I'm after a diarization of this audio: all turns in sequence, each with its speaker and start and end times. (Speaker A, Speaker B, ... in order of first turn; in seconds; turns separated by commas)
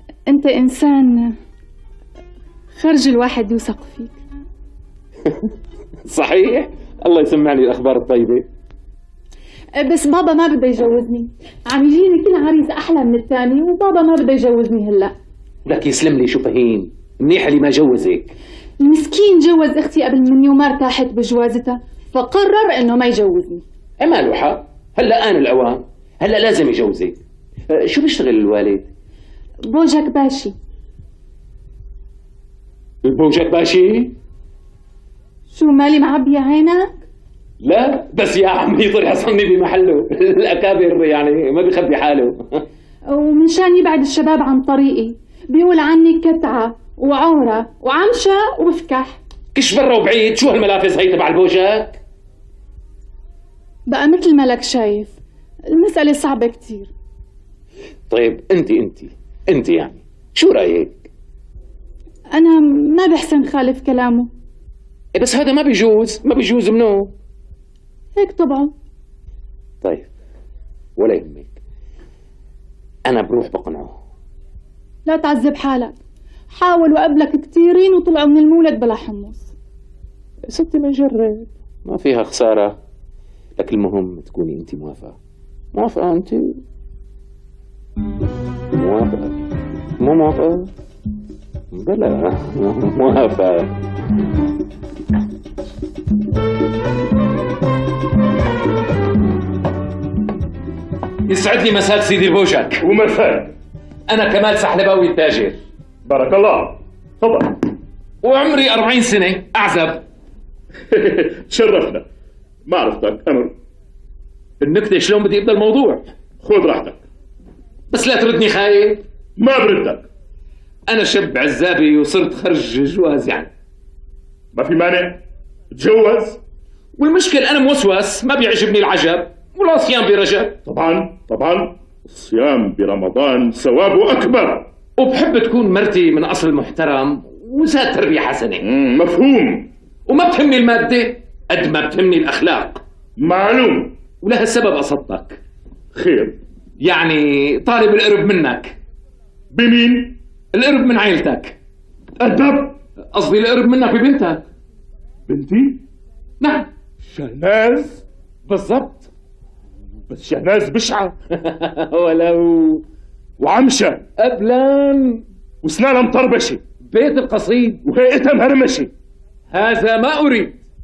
Speaker A: 0.3-1.4, Speaker A: 2.8-4.2, Speaker B: 5.2-5.5, Speaker B: 6.0-8.5, Speaker A: 9.8-15.1, Speaker B: 15.7-18.3, Speaker A: 18.8-23.6, Speaker B: 24.0-27.2, Speaker B: 27.7-28.9, Speaker A: 29.7-30.5, Speaker B: 33.0-34.1, Speaker A: 35.5-36.9, Speaker B: 37.6-42.6, Speaker A: 43.1-49.2, Speaker B: 49.5-52.0, Speaker A: 53.9-55.1, Speaker A: 55.7-56.9, Speaker B: 58.1-61.0, Speaker A: 62.3-64.3, Speaker B: 65.1-67.1, Speaker A: 68.2-68.7, Speaker B: 69.8-70.1, Speaker B: 71.0-71.5, Speaker B: 73.0-74.0, Speaker A: 75.1-76.0, Speaker A: 76.5-79.5, Speaker B: 80.5-82.8, Speaker B: 83.6-85.2, Speaker B: 85.7-86.6, Speaker B: 88.7-89.4, Speaker B: 90.0-90.7, Speaker B: 91.7-93.7, Speaker B: 101.3-102.8, Speaker C: 102.8-103.5, Speaker B: 104.1-105.6, Speaker C: 106.0-107.6, Speaker B: 108.2-110.0, Speaker C: 110.9-112.0, Speaker C: 112.7-113.5, Speaker B: 114.6-116.1, Speaker C: 116.4-117.0, Speaker B: 117.9-119.0, Speaker C: 119.4-120.1, Speaker B: 120.9-123.5, Speaker C: 124.5-126.4, Speaker B: 127.0-130.6, Speaker C: 130.6-134.7, Speaker B: 135.0-138.6, Speaker C: 138.6-139.7, Speaker B: 140.1-142.8, Speaker C: 143.2-144.0, Speaker B: 144.2-145.4, Speaker C: 145.9-146.4, Speaker B: 146.8-148.8, Speaker C: 149.5-150.2, Speaker B: 150.5-151.6, Speaker C: 152.2-152.8, Speaker B: 153.1-154.5, Speaker C: 155.3-155.8, Speaker B: 156.4-156.7, Speaker C: 157.1-158.0, Speaker B: 158.5-159.1, Speaker C: 160.1-161.2, Speaker B: 161.3-162.8, Speaker C: 163.4-164.0, Speaker B: 164.2-165.2, Speaker C: 165.6-166.6, Speaker B: 166.8-167.8, Speaker C: 167.8-168.9, Speaker B: 169.5-170.6